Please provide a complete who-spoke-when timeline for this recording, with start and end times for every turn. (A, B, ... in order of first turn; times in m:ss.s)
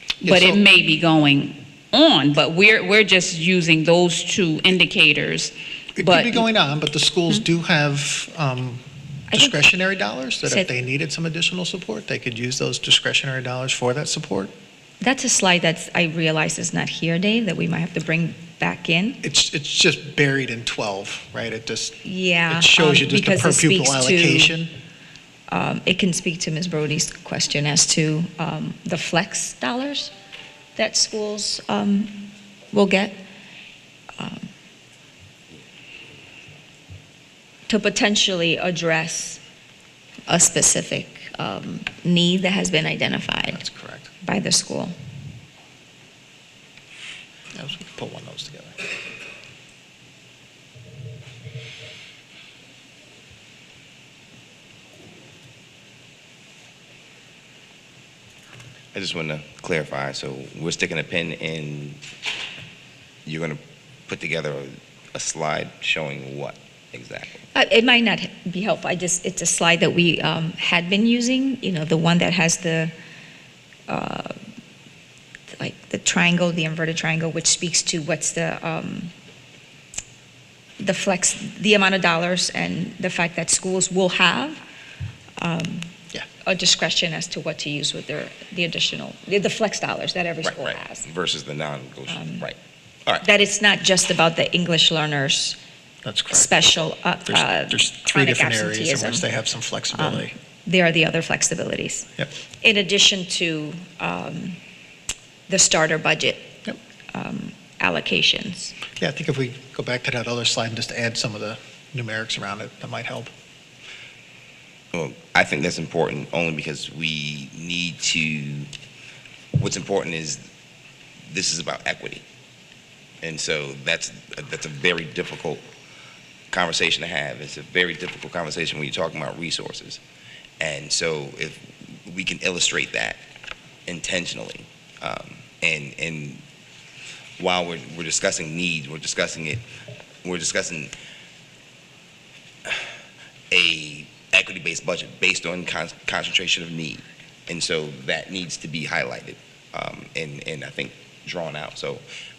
0:00.2-0:06.5 A
0:00.2-0:00.6 B
0:06.0-0:14.5 B
0:09.3-0:09.6 C
0:10.4-0:10.7 C
0:15.0-0:19.2 C
0:19.2-0:24.7 B
0:22.0-0:24.6 C
0:25.5-0:30.1 C
0:30.8-0:33.2 C
0:34.2-0:34.5 C
0:37.7-0:39.4 C
0:40.3-0:43.6 C
0:43.5-0:44.1 B
0:44.2-0:44.9 C
0:47.5-0:48.8 B
0:58.9-1:02.0 D
1:03.3-1:07.4 D
1:07.5-1:12.9 C
1:13.9-1:14.3 C
1:15.5-1:19.1 C
1:20.8-1:24.6 C
1:25.4-1:25.9 C
1:26.4-1:31.1 C
1:30.4-1:33.3 D
1:32.1-1:32.5 C
1:33.2-1:35.6 C
1:36.0-1:36.6 B
1:36.3-1:39.3 C
1:37.3-1:40.3 B
1:39.9-1:42.1 C
1:42.6-1:44.6 C
1:45.5-1:46.6 C
1:47.1-1:48.8 C
1:49.0-1:53.3 B
1:54.9-1:58.7 D
1:59.6-2:00.5 D
2:01.3-2:02.2 D
2:03.2-2:05.6 D
2:06.5-2:10.0 D
2:10.6-2:13.2 D
2:13.9-2:16.4 D
2:17.4-2:19.6 D
2:20.2-2:20.9 D
2:23.5-2:32.0 D